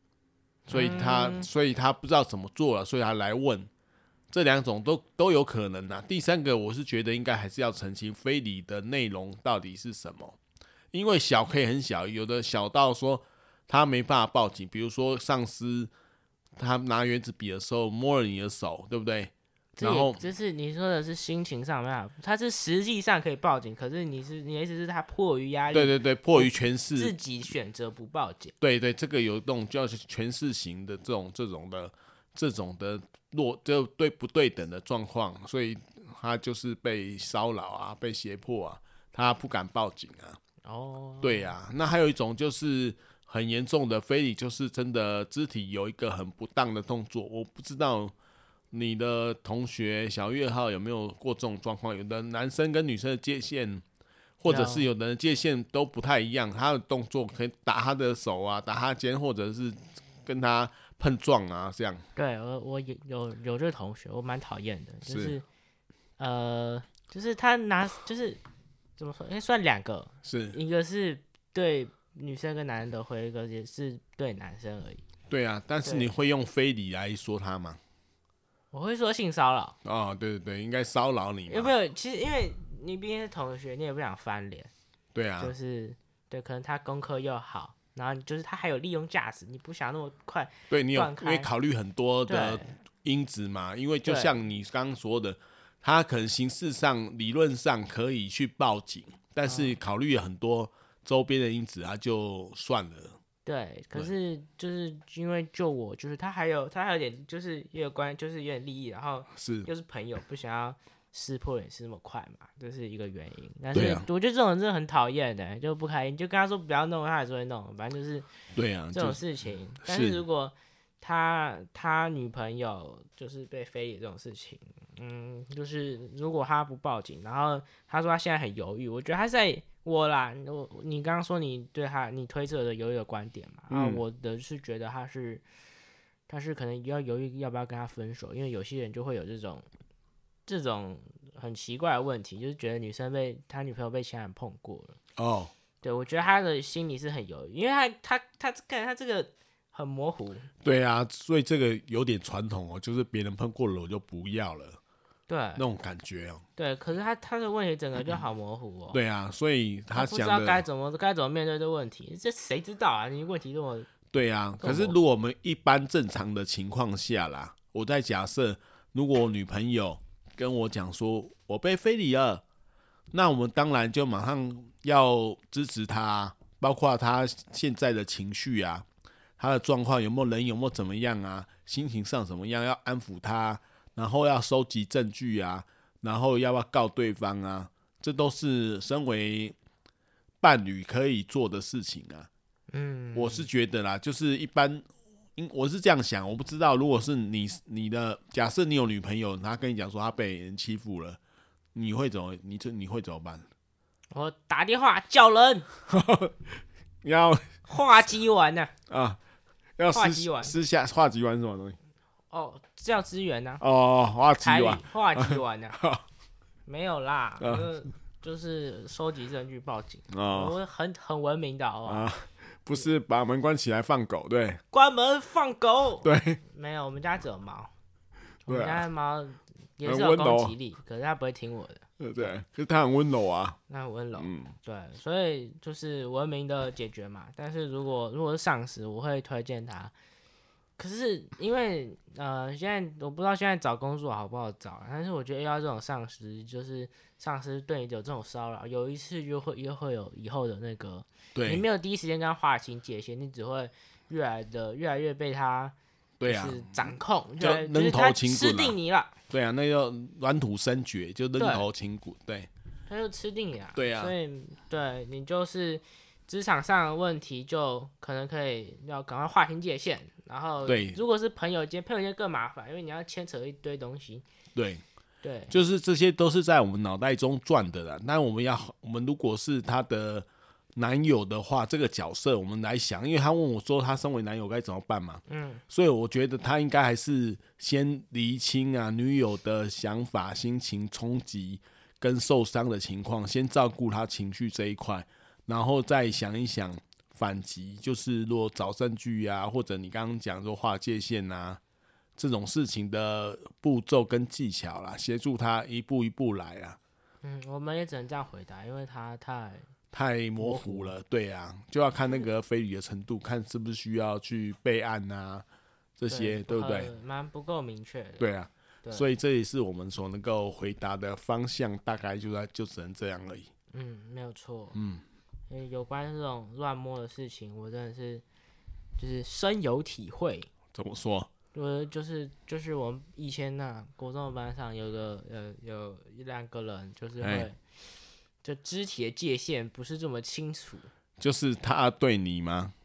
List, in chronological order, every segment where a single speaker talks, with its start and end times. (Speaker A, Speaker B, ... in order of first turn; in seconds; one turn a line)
Speaker A: 0.7-3.7
Speaker B: 0.7-1.5
Speaker A: 4.3-10.4
Speaker A: 10.9-15.9
Speaker A: 16.6-20.2
Speaker B: 19.8-28.5
Speaker A: 25.7-27.1
Speaker A: 28.6-40.4
Speaker B: 40.6-41.5
Speaker A: 41.2-48.1
Speaker A: 48.7-53.8
Speaker A: 54.4-62.0
Speaker B: 54.5-54.9
Speaker B: 62.1-65.4
Speaker A: 65.0-65.3
Speaker B: 66.2-68.4
Speaker B: 69.0-75.0
Speaker A: 70.2-70.6
Speaker A: 75.3-77.8
Speaker B: 75.8-76.1
Speaker B: 78.7-79.8
Speaker A: 79.8-81.7
Speaker B: 81.5-84.7
Speaker A: 85.1-85.5
Speaker B: 85.4-91.5
Speaker A: 90.7-103.2
Speaker B: 92.3-92.7
Speaker B: 94.0-94.3
Speaker B: 99.5-99.7
Speaker B: 103.5-118.3
Speaker A: 109.3-109.7
Speaker A: 113.7-114.1
Speaker A: 118.5-119.2
Speaker B: 118.9-135.4
Speaker A: 119.8-120.2
Speaker A: 133.7-134.0
Speaker B: 136.3-139.7
Speaker B: 140.4-145.0
Speaker A: 145.2-145.5
Speaker B: 145.8-150.5
Speaker A: 150.6-154.8
Speaker B: 155.3-155.6
Speaker A: 155.6-156.4
Speaker B: 156.6-159.0
Speaker A: 158.9-160.6
Speaker B: 159.9-163.9
Speaker A: 164.1-172.4
Speaker B: 164.6-164.9
Speaker A: 173.1-178.8
Speaker A: 179.4-189.6
Speaker A: 190.4-192.3
Speaker B: 192.7-193.5
Speaker A: 193.1-201.2
Speaker A: 201.7-203.4
Speaker B: 204.1-205.7
Speaker A: 205.9-207.6
Speaker B: 207.7-208.7
Speaker A: 208.9-209.2
Speaker A: 209.8-211.8
Speaker B: 209.9-210.5
Speaker B: 212.3-213.6
Speaker A: 213.6-216.0
Speaker B: 214.4-215.8
Speaker B: 216.7-222.1
Speaker A: 217.4-217.7
Speaker A: 220.1-220.5
Speaker A: 221.8-224.6
Speaker B: 224.7-227.7
Speaker A: 226.0-226.4
Speaker B: 228.4-232.3
Speaker A: 228.5-228.8
Speaker A: 229.8-230.5
Speaker A: 232.0-233.6
Speaker B: 233.7-239.9
Speaker A: 234.2-234.5
Speaker B: 240.8-259.1
Speaker A: 251.3-251.6
Speaker A: 256.2-258.8
Speaker A: 259.3-262.5
Speaker B: 261.4-261.6
Speaker B: 262.9-274.2
Speaker A: 263.8-264.1
Speaker A: 270.6-271.0
Speaker A: 274.6-274.8
Speaker B: 275.2-275.5
Speaker A: 275.5-301.6
Speaker B: 285.3-285.6
Speaker A: 302.2-306.8
Speaker B: 307.2-309.7
Speaker A: 309.9-315.4
Speaker B: 310.4-310.9
Speaker A: 316.0-316.9
Speaker B: 316.1-318.2
Speaker A: 318.2-323.5
Speaker B: 323.7-324.8
Speaker A: 324.7-325.0
Speaker B: 325.5-328.2
Speaker B: 329.0-330.5
Speaker A: 330.7-331.3
Speaker B: 331.5-337.6
Speaker A: 337.2-337.5
Speaker B: 338.4-340.9
Speaker A: 341.2-342.7